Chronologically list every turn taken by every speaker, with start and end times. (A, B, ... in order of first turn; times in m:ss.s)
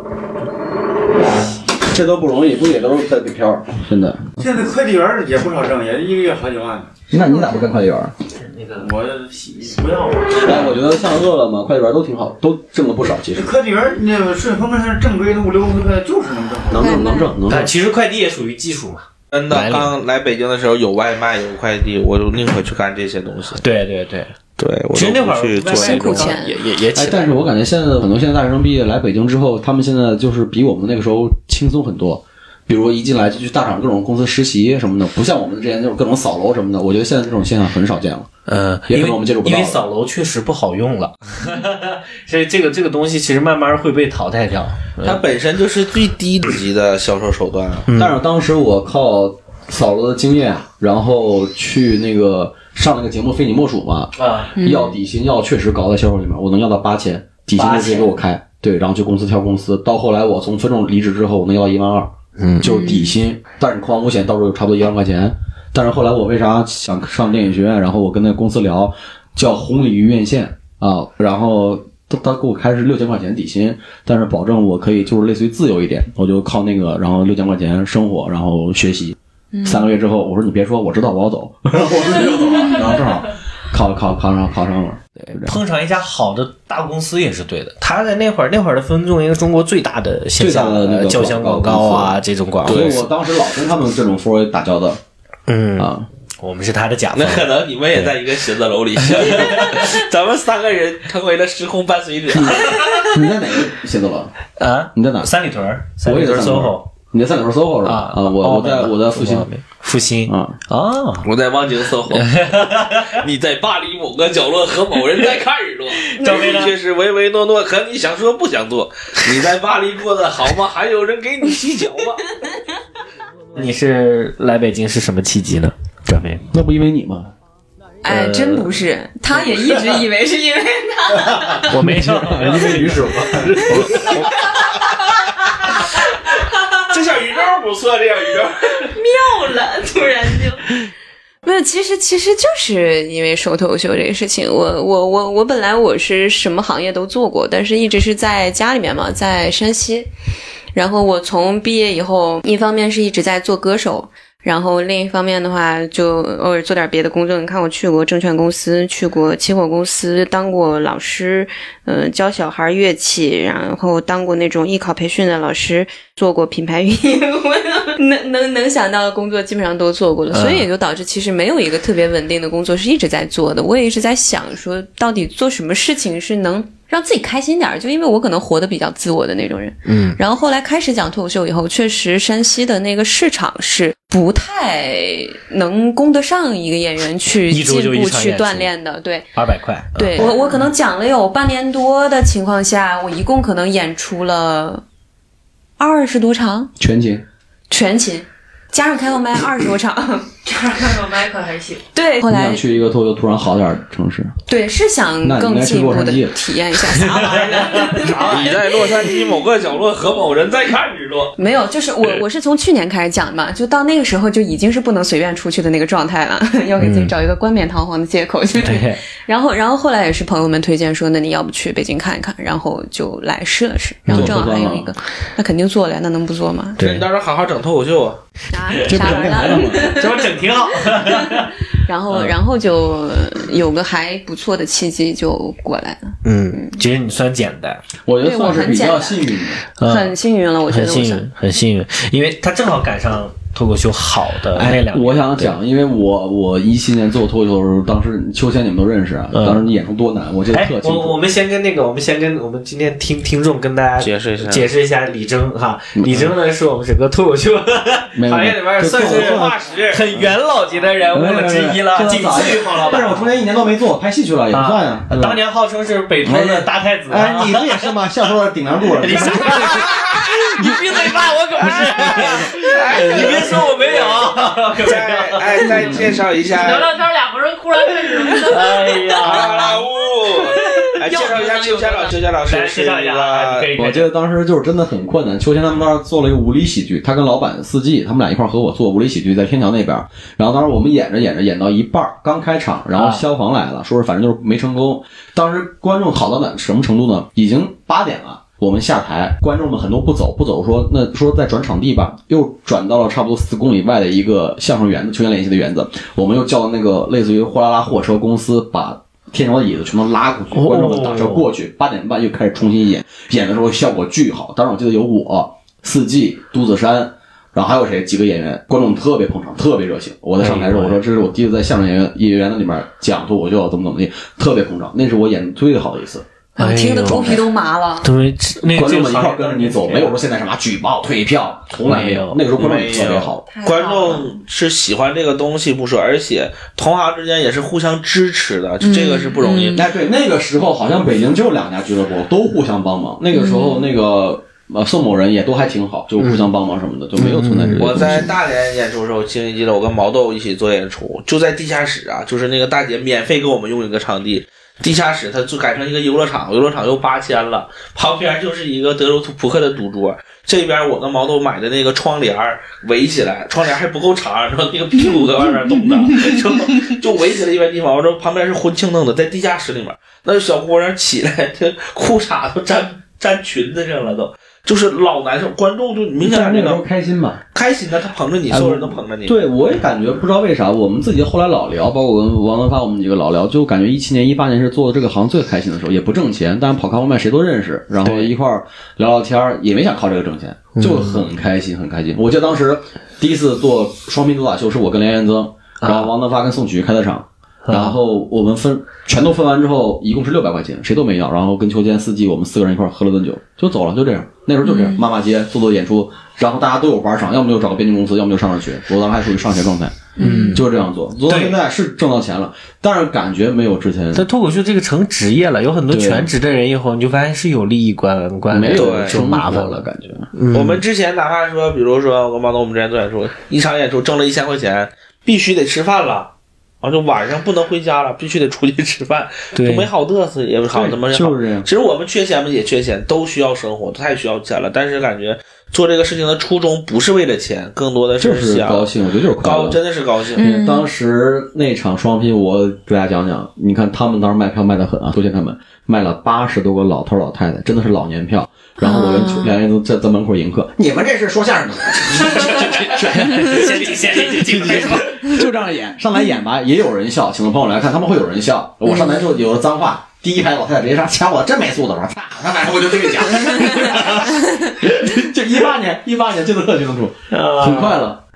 0:01.8-0:04.3 A
0:04.4-0:07.3 B
0:07.1-0:08.1 A
0:08.4-0:10.7 C
0:08.8-0:10.1 B
0:10.3-0:13.5 A
0:13.3-0:17.0 B
0:16.7-0:17.7 A
0:16.8-0:17.3 D
0:17.5-0:19.9 C
0:19.3-0:23.6 E
0:23.6-0:24.3 C
0:24.6-0:26.4 E
0:24.9-0:27.3 C
0:25.7-0:26.6 D
0:26.9-0:38.3 A
0:38.5-0:45.2 C
0:38.9-0:39.8 A
0:45.0-0:47.9 E
0:47.9-0:48.2 C
0:47.9-1:25.6 A
0:54.2-0:54.5 C
0:54.6-0:55.0 D
0:57.6-0:58.1 C
1:02.4-1:02.7 C
1:02.6-1:03.2 D
1:19.5-1:19.9 D
1:25.3-1:33.0 C
1:30.4-1:35.0 A
1:32.7-1:33.0 E
1:35.5-1:38.1 C
1:35.8-1:36.1 A
1:37.2-1:43.0 E
1:39.0-1:39.9 C
1:42.3-1:44.3 A
1:42.7-1:43.1 C
1:44.6-1:46.9 C
1:45.0-1:45.3 A
1:46.0-1:49.5 A
1:47.8-1:51.2 C
1:50.2-1:50.6 A
1:51.2-2:02.2 E
1:52.1-1:53.2 C
1:56.0-1:56.7 C
1:56.2-1:56.6 D
2:03.6-2:06.4 C
2:06.5-2:07.3 A
2:08.0-2:11.7 D
2:08.1-2:08.7 C
2:11.6-2:14.2 C
2:11.7-2:14.3 A
2:14.2-2:14.8 D
2:16.8-2:18.9 E
2:18.9-2:20.6 D
2:21.4-2:30.1 D
2:30.8-3:09.3 D
2:50.3-2:50.7 C
2:59.8-3:00.2 C
3:07.5-3:08.7 C
3:09.4-3:10.3 C
3:10.0-3:14.8 D
3:15.8-3:16.7 D
3:16.8-3:17.2 A
3:17.7-3:20.3 D
3:20.5-3:21.8 F
3:21.9-3:22.6 D
3:22.3-3:24.3 A
3:24.5-3:29.0 D
3:25.2-3:26.4 A
3:27.1-3:28.6 C
3:27.5-3:31.4 E
3:31.4-3:46.8 D
3:36.8-3:37.1 C
3:38.6-3:39.0 C
3:44.1-3:44.6 C
3:44.1-3:44.9 A
3:46.8-3:47.0 C
3:46.8-3:48.2 E
3:48.5-3:50.3 D
3:48.7-3:51.5 C
3:48.8-3:49.9 A
3:50.9-3:56.8 D
3:52.1-3:52.4 C
3:56.2-3:57.8 C
3:58.1-3:59.6 A
3:58.2-3:59.2 D
3:59.8-4:00.2 C
3:59.8-4:01.3 D
4:00.7-4:05.5 C
4:04.5-4:11.2 A
4:09.3-4:09.6 C
4:10.5-4:23.3 C
4:14.0-4:14.7 E
4:16.0-4:16.3 A
4:18.2-4:19.6 A
4:18.8-4:20.1 E
4:21.1-4:25.4 A
4:24.5-4:27.9 C
4:26.2-4:31.1 A
4:29.0-4:35.9 C
4:31.6-4:32.5 A
4:32.2-4:37.0 E
4:35.7-4:36.1 A
4:36.4-4:39.8 F
4:38.4-4:39.8 C
4:39.2-4:43.7 E
4:41.2-4:41.9 F
4:42.4-4:44.1 C
4:43.8-5:26.2 A
4:52.9-4:53.2 C
5:10.5-5:11.5 C
5:20.4-5:21.0 C
5:26.6-5:27.4 C
5:26.6-5:28.1 D
5:27.1-5:27.3 A
5:28.0-5:30.2 C
5:28.7-5:33.4 A
5:31.8-5:32.4 C
5:32.6-5:39.8 E
5:33.5-5:34.4 D
5:38.8-5:39.8 D
5:39.7-5:48.3 A
5:43.3-5:43.9 D
5:46.2-5:46.5 C
5:47.2-5:48.2 C
5:47.8-6:16.8 E
6:16.2-6:17.4 A
6:17.5-6:19.4 E
6:18.5-6:50.0 A
6:28.0-6:28.3 C
6:30.8-6:31.2 C
6:35.8-6:36.1 C
6:37.6-6:38.0 C
6:44.6-6:45.0 D
6:50.2-6:50.6 D
6:50.2-6:50.7 C
6:50.5-6:54.3 A
6:51.3-6:51.6 C
6:54.1-7:00.8 C
6:55.9-6:56.3 A
6:58.5-7:00.3 A
6:58.7-6:59.3 E
7:00.5-7:06.3 E
7:06.8-7:20.4 E
7:09.6-7:09.9 C
7:10.7-7:11.7 A
7:18.2-7:19.8 A
7:20.4-7:20.9 D
7:20.4-7:48.2 A
7:28.8-7:29.5 D
7:32.3-7:35.4 C
7:38.9-7:39.2 D
7:47.3-7:48.0 C